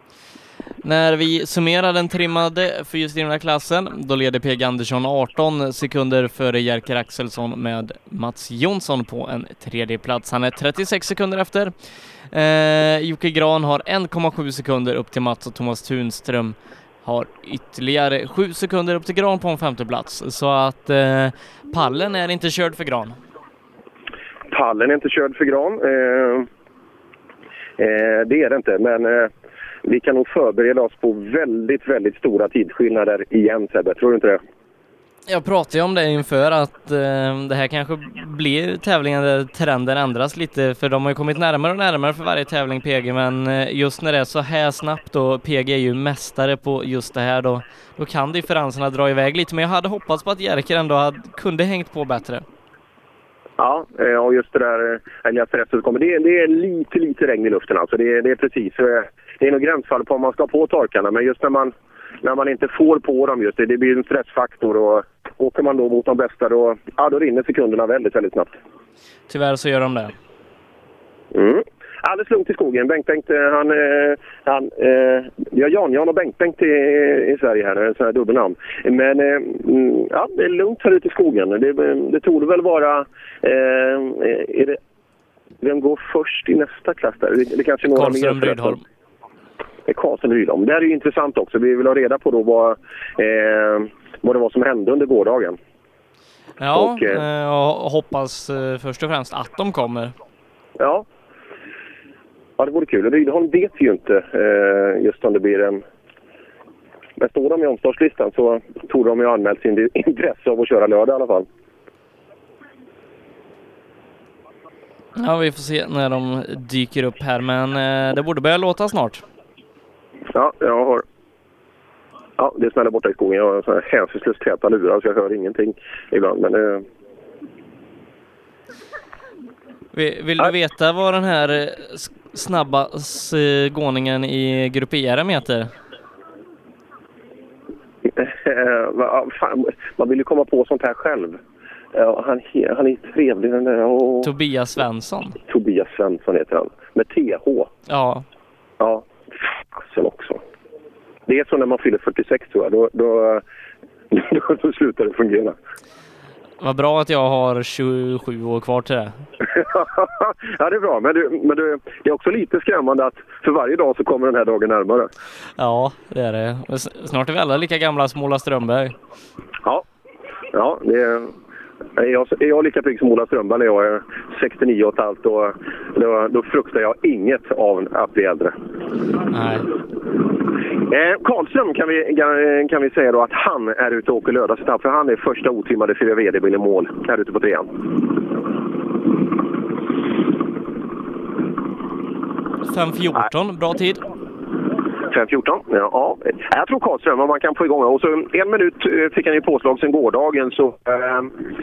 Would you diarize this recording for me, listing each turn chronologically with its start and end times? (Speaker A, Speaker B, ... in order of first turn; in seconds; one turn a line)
Speaker A: 0.8-11.7
Speaker A: 12.3-23.2
Speaker B: 24.5-26.5
Speaker B: 27.8-29.3
Speaker B: 29.8-34.4
Speaker A: 35.3-52.4
Speaker B: 53.6-68.5
Speaker A: 69.3-70.1
Speaker B: 71.3-84.8
Speaker B: 85.6-88.8
Speaker A: 87.9-88.8
Speaker B: 89.9-95.6
Speaker A: 96.6-100.1
Speaker B: 96.7-97.2
Speaker B: 100.8-101.0
Speaker B: 102.6-105.8
Speaker B: 107.2-111.5
Speaker A: 115.2-119.2
Speaker B: 120.3-121.0
Speaker B: 122.4-126.8
Speaker A: 129.9-135.7
Speaker B: 138.1-141.4
Speaker B: 141.9-144.3
Speaker A: 144.2-145.4
Speaker B: 145.5-147.7
Speaker A: 147.9-148.2
Speaker B: 148.8-150.4
Speaker B: 151.3-153.4
Speaker B: 154.1-155.5
Speaker A: 156.6-159.2
Speaker B: 159.5-165.1
Speaker A: 165.6-168.9
Speaker B: 170.5-171.3
Speaker B: 172.0-178.5
Speaker A: 179.3-179.6
Speaker B: 180.9-187.7
Speaker A: 192.7-194.0
Speaker B: 195.1-201.3